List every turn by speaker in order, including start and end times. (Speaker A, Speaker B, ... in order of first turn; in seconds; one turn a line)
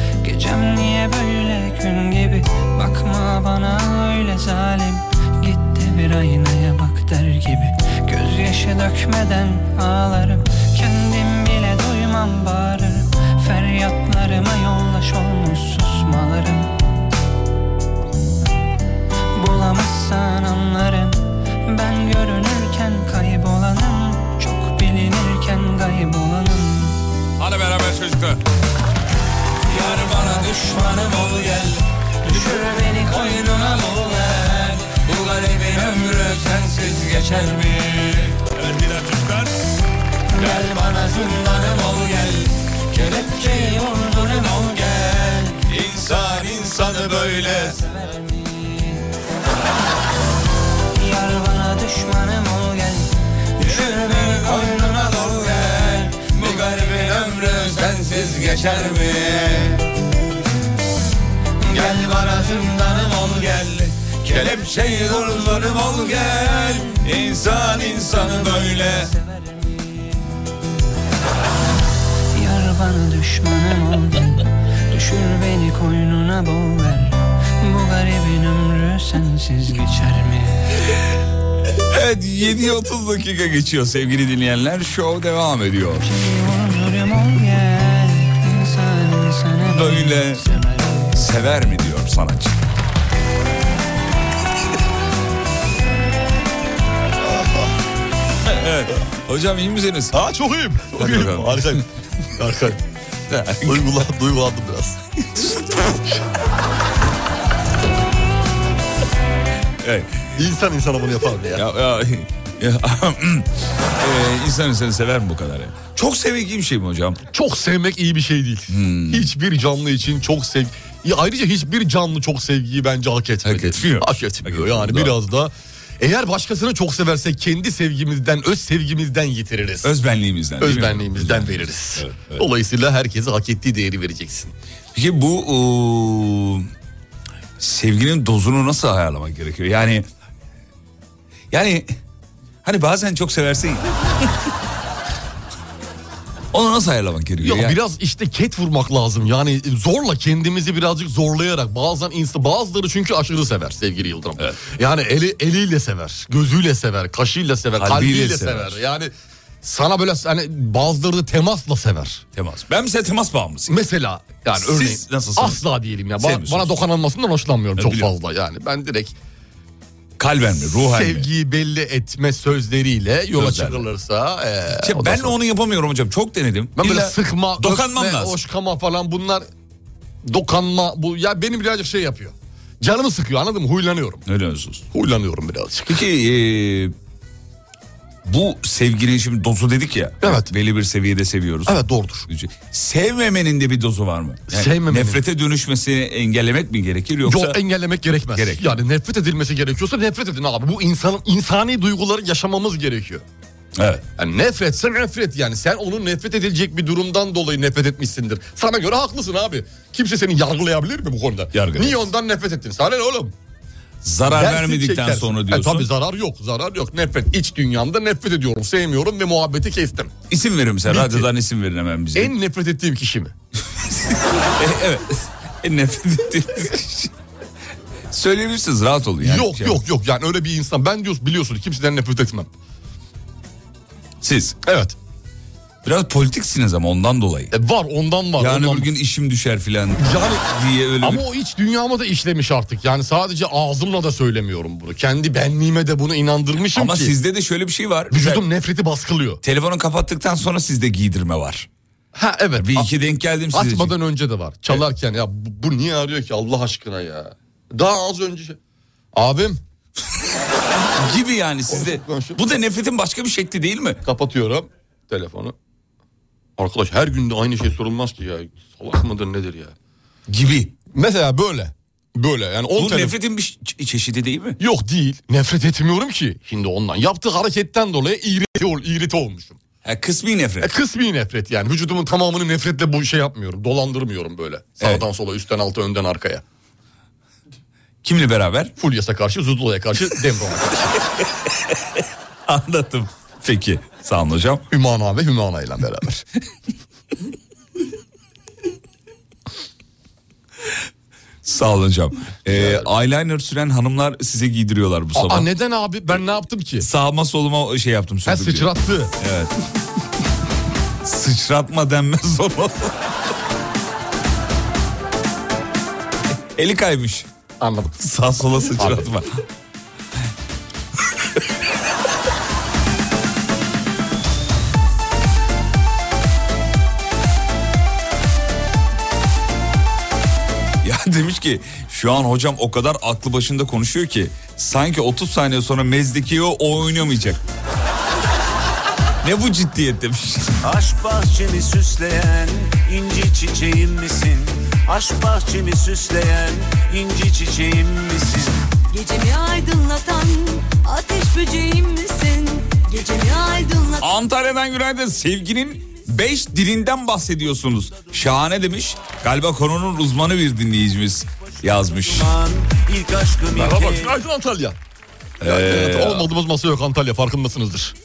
Speaker A: 0.2-16.7
Speaker A: 19.4-27.0
Speaker B: 27.4-28.4
Speaker A: 29.7-38.4
Speaker B: 38.5-39.5
Speaker A: 40.3-46.1
Speaker B: 45.7-47.7
Speaker A: 46.9-49.0
Speaker A: 51.0-57.7
Speaker B: 53.6-54.7
Speaker B: 56.3-59.7
Speaker A: 61.6-63.9
Speaker B: 63.7-69.1
Speaker A: 64.9-70.2
Speaker A: 72.3-80.7
Speaker B: 81.9-86.1
Speaker A: 86.0-91.2
Speaker B: 89.7-90.4
Speaker B: 91.1-92.5
Speaker B: 98.5-100.2
Speaker C: 100.2-101.8
Speaker B: 101.0-101.8
Speaker C: 102.4-102.8
Speaker B: 103.3-103.9
Speaker C: 103.7-105.0
Speaker B: 109.8-110.1
Speaker C: 110.4-111.6
Speaker B: 111.5-113.5
Speaker B: 114.0-117.2
Speaker C: 117.3-129.9
Speaker B: 118.7-119.3
Speaker B: 123.5-125.2
Speaker B: 129.8-132.4
Speaker C: 130.6-134.5
Speaker B: 134.9-136.7
Speaker B: 137.6-140.1
Speaker B: 141.5-141.9
Speaker B: 142.6-143.9
Speaker B: 146.5-147.8
Speaker C: 147.4-159.1
Speaker B: 157.8-158.8
Speaker C: 159.6-162.2
Speaker B: 162.3-163.7
Speaker C: 163.7-169.1
Speaker B: 164.6-165.6
Speaker B: 166.2-166.7
Speaker B: 167.8-168.1
Speaker B: 170.2-171.3
Speaker C: 170.8-175.3
Speaker B: 173.4-173.8
Speaker B: 174.8-178.4
Speaker C: 176.8-179.5
Speaker C: 180.3-184.2
Speaker B: 184.3-184.8
Speaker C: 184.9-186.0
Speaker B: 185.9-186.9
Speaker B: 188.2-197.6
Speaker C: 190.2-190.5
Speaker C: 191.7-192.3
Speaker C: 194.5-195.2
Speaker C: 197.3-203.2
Speaker B: 198.3-198.8
Speaker B: 203.8-204.0
Speaker C: 204.2-213.3
Speaker B: 211.5-212.1
Speaker B: 214.0-215.9
Speaker C: 214.3-220.1
Speaker B: 220.3-222.3
Speaker C: 220.9-221.3
Speaker C: 222.2-223.3
Speaker B: 223.9-227.1
Speaker B: 228.1-229.8
Speaker C: 229.2-232.5
Speaker B: 234.2-234.6
Speaker C: 234.7-235.0
Speaker B: 235.8-237.5
Speaker C: 237.5-238.9
Speaker B: 238.4-241.2
Speaker C: 240.0-240.4
Speaker C: 241.0-247.1
Speaker B: 246.7-248.4
Speaker C: 248.1-249.4
Speaker B: 249.4-251.7
Speaker C: 252.2-252.9
Speaker B: 252.6-253.9
Speaker C: 253.5-258.6
Speaker C: 259.1-259.6
Speaker B: 261.0-264.0
Speaker C: 261.7-262.4
Speaker C: 264.0-265.5
Speaker C: 266.6-269.7
Speaker B: 270.3-270.7
Speaker C: 270.9-273.1
Speaker B: 272.8-274.6
Speaker C: 274.6-279.6
Speaker B: 279.8-280.7
Speaker C: 280.6-286.4
Speaker B: 288.0-288.7
Speaker C: 288.8-290.9
Speaker B: 292.5-294.6
Speaker C: 294.7-296.2
Speaker B: 301.4-305.5
Speaker C: 302.5-302.9
Speaker C: 305.1-306.9
Speaker B: 306.8-309.5
Speaker C: 308.3-309.1
Speaker B: 311.0-312.9
Speaker B: 316.6-317.3
Speaker C: 317.6-318.0
Speaker B: 318.0-319.4
Speaker C: 318.8-319.1
Speaker B: 330.8-337.4
Speaker B: 339.2-340.6
Speaker D: 340.6-348.7
Speaker E: 348.9-354.0
Speaker B: 354.0-362.3
Speaker D: 362.0-364.1
Speaker C: 363.6-364.8
Speaker B: 365.4-366.3
Speaker C: 365.4-367.9